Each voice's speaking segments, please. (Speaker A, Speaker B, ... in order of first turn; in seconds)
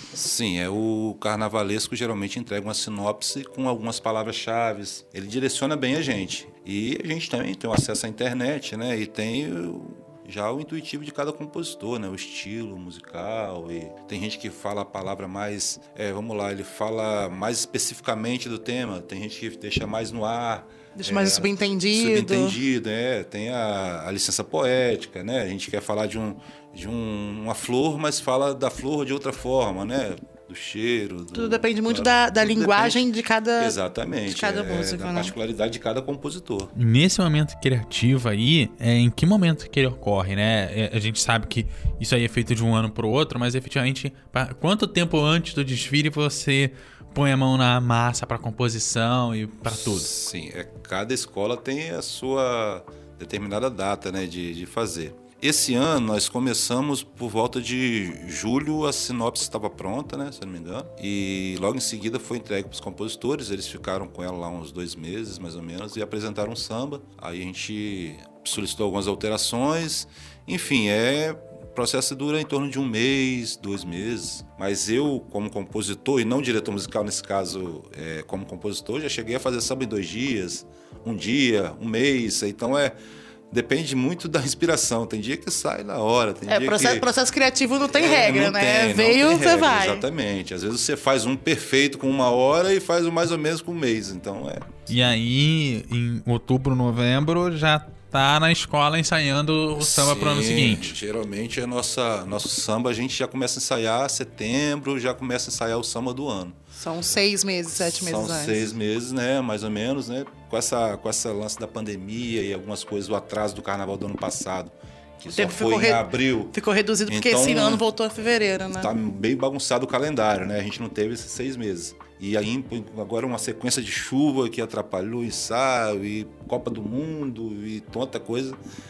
Speaker A: 0.1-36.7, 49.6-83.0, 83.5-87.0, 87.8-94.9, 99.8-106.5, 107.8-116.5, 117.1-117.8, 118.8-128.6
Speaker B: 20.9-22.6, 31.3-35.3, 86.5-90.0, 106.7-108.7, 115.3-118.9
Speaker C: 36.7-50.1, 94.9-100.9